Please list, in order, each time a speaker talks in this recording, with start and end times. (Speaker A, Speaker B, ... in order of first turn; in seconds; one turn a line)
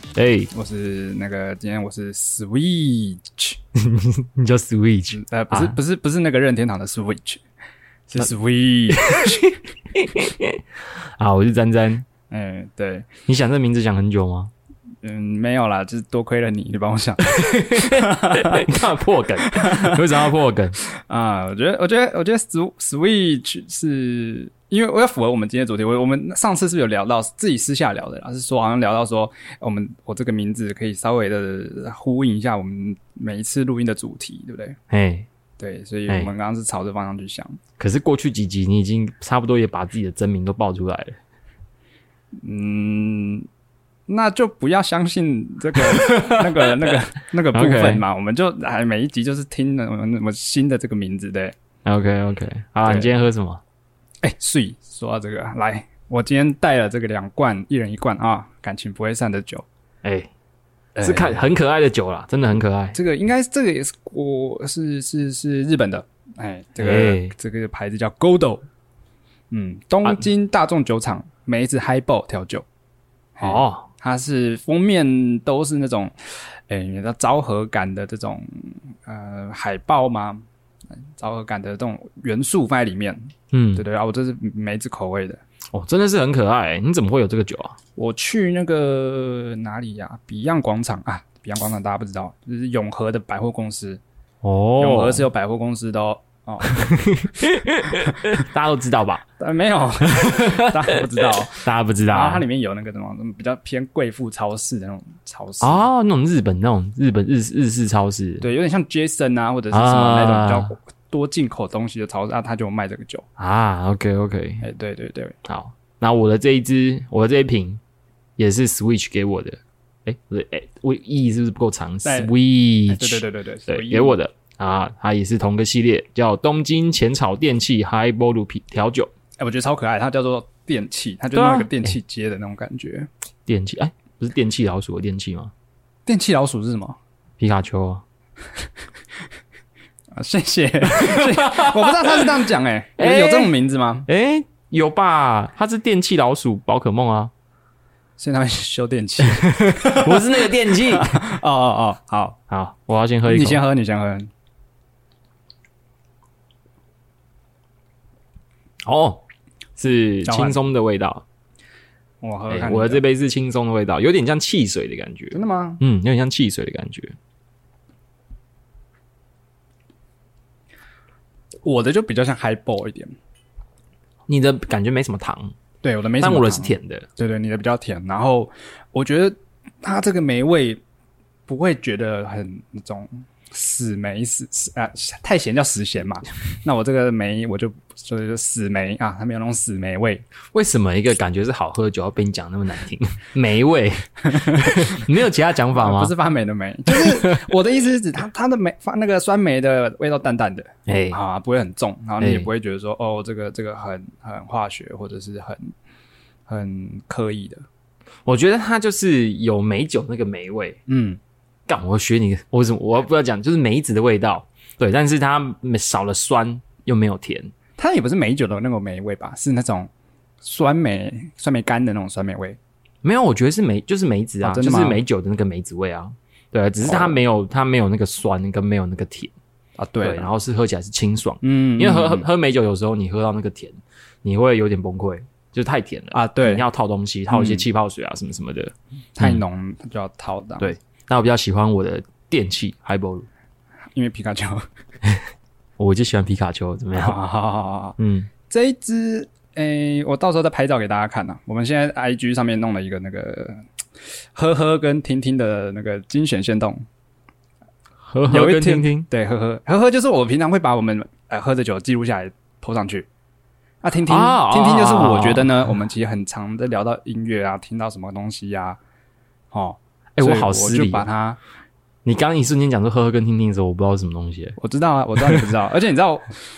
Speaker A: 0.1-0.5
Speaker B: 0.5-3.6
Speaker A: 3.7-5.8
Speaker B: 5.1-7.4
Speaker B: 8.1-9.5
Speaker A: 8.9-10.6
Speaker A: 11.2-12.1
Speaker B: 12.3-13.1
Speaker A: 13.3-14.5
Speaker B: 15.0-18.6
Speaker A: 17.2-20.8
Speaker B: 19.4-20.0
Speaker B: 20.9-34.8
Speaker A: 34.9-35.3
Speaker B: 35.6-37.6
Speaker A: 37.8-41.2
Speaker B: 42.4-43.5
Speaker B: 44.1-51.5
Speaker A: 45.7-46.9
Speaker A: 47.5-48.0
Speaker A: 51.8-53.6
Speaker B: 52.8-53.1
Speaker B: 54.2-59.6
Speaker A: 60.0-60.3
Speaker A: 60.9-63.0
Speaker B: 61.0-61.4
Speaker B: 62.9-68.6
Speaker A: 66.8-67.3
Speaker B: 69.5-72.6
Speaker B: 73.4-80.4
Speaker A: 73.4-73.8
Speaker B: 81.2-85.4
Speaker A: 83.5-83.8
Speaker A: 85.7-87.8
Speaker B: 88.0-94.0
Speaker A: 94.4-95.2
Speaker B: 94.8-96.8
Speaker A: 96.6-99.2
Speaker B: 99.4-105.8
Speaker A: 100.1-100.7
Speaker A: 101.4-102.4
Speaker A: 105.6-108.4
Speaker B: 108.4-113.2
Speaker A: 109.7-110.7
Speaker A: 113.4-114.6
Speaker B: 114.6-115.4
Speaker A: 115.4-117.8
Speaker A: 118.4-129.1
Speaker B: 122.0-122.3
Speaker B: 122.9-124.2
Speaker B: 129.4-133.1
Speaker A: 131.3-131.9
Speaker A: 133.4-135.5
Speaker B: 136.1-137.0
Speaker A: 137.4-138.0
Speaker B: 140.2-144.1
Speaker A: 140.9-142.3
Speaker A: 143.0-143.5
Speaker A: 144.1-147.3
Speaker B: 148.2-152.4
Speaker A: 149.3-151.2
Speaker A: 152.5-153.6
Speaker B: 153.3-154.3
Speaker A: 158.8-159.2
Speaker A: 159.8-161.2
Speaker B: 160.2-160.6
Speaker B: 162.2-163.0
Speaker A: 162.5-167.2
Speaker B: 165.3-165.8
Speaker B: 171.6-173.1
Speaker A: 174.3-175.5
Speaker B: 175.8-180.8
Speaker A: 176.2-177.1
Speaker B: 181.5-190.2
Speaker A: 190.5-196.1
Speaker B: 194.3-195.1
Speaker B: 195.7-205.7
Speaker A: 196.9-197.4
Speaker A: 200.9-201.2
Speaker A: 202.2-202.5
Speaker B: 206.5-207.6
Speaker A: 208.2-210.8
Speaker B: 210.9-211.2
Speaker A: 211.7-217.5
Speaker B: 217.8-219.9
Speaker B: 220.4-222.6
Speaker A: 223.0-229.3
Speaker B: 224.4-225.0
Speaker B: 226.8-227.2
Speaker B: 229.8-230.3
Speaker A: 230.0-239.4
Speaker B: 231.4-232.3
Speaker B: 236.1-236.6
Speaker B: 237.3-237.6
Speaker B: 239.2-240.7
Speaker A: 240.6-243.3
Speaker B: 243.9-244.6
Speaker A: 245.8-247.2
Speaker B: 247.0-247.9
Speaker A: 248.0-248.3
Speaker B: 248.5-253.6
Speaker B: 254.3-256.8
Speaker A: 258.1-259.1
Speaker B: 258.3-263.1
Speaker B: 263.8-268.8
Speaker A: 264.1-265.7
Speaker B: 269.5-271.4
Speaker A: 270.1-271.1
Speaker A: 272.0-274.6
Speaker B: 274.6-276.3